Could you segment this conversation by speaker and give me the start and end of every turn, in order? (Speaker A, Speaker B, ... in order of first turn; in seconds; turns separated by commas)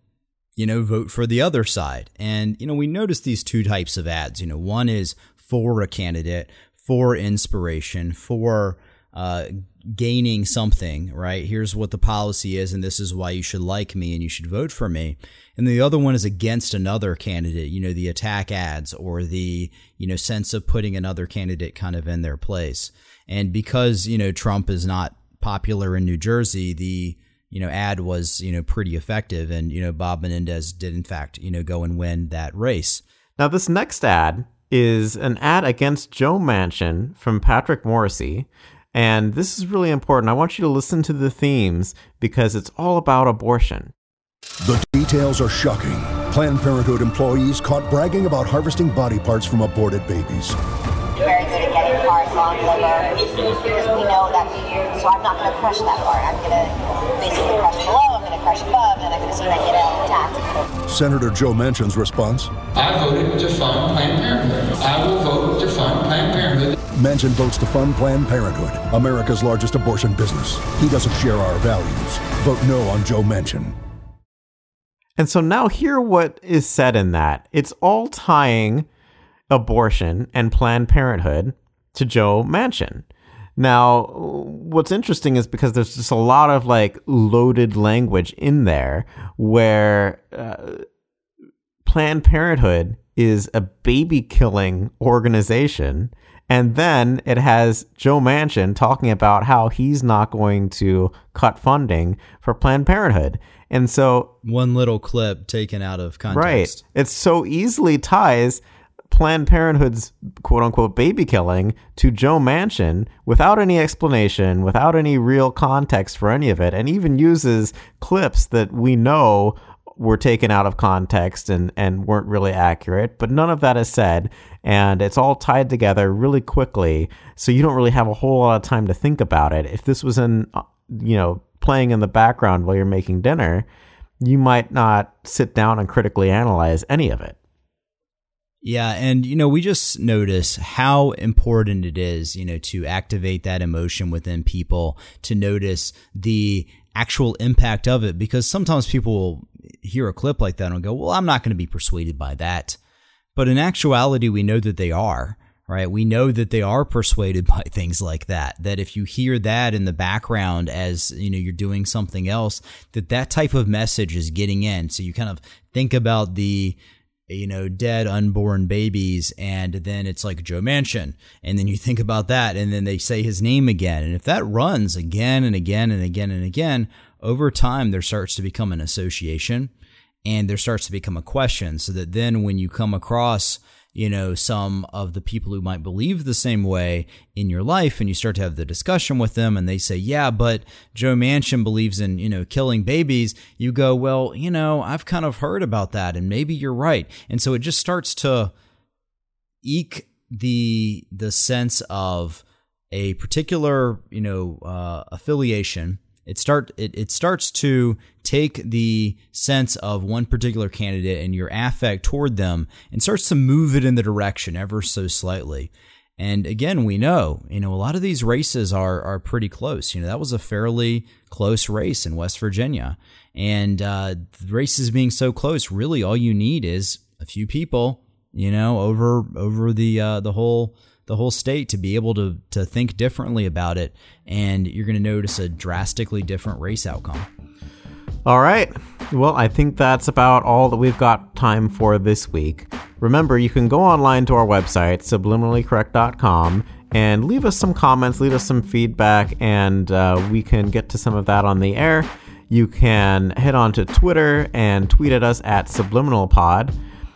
Speaker A: 0.6-33.0, Speaker B: 33.4-43.9, Speaker C: 44.6-50.6, Speaker D: 51.2-60.6, Speaker C: 60.9-62.5, Speaker E: 62.8-66.8, Speaker C: 67.0-73.8, Speaker B: 75.2-78.9, Speaker B: 79.5-83.0, Speaker B: 83.6-90.8, Speaker B: 91.8-104.3, Speaker A: 104.4-106.8, Speaker B: 106.3-133.7, Speaker B: 134.2-137.4, Speaker A: 138.6-152.8, Speaker A: 153.3-166.8, Speaker A: 167.3-179.7, Speaker A: 180.2-198.5, Speaker A: 199.6-237.3, Speaker B: 238.2-256.7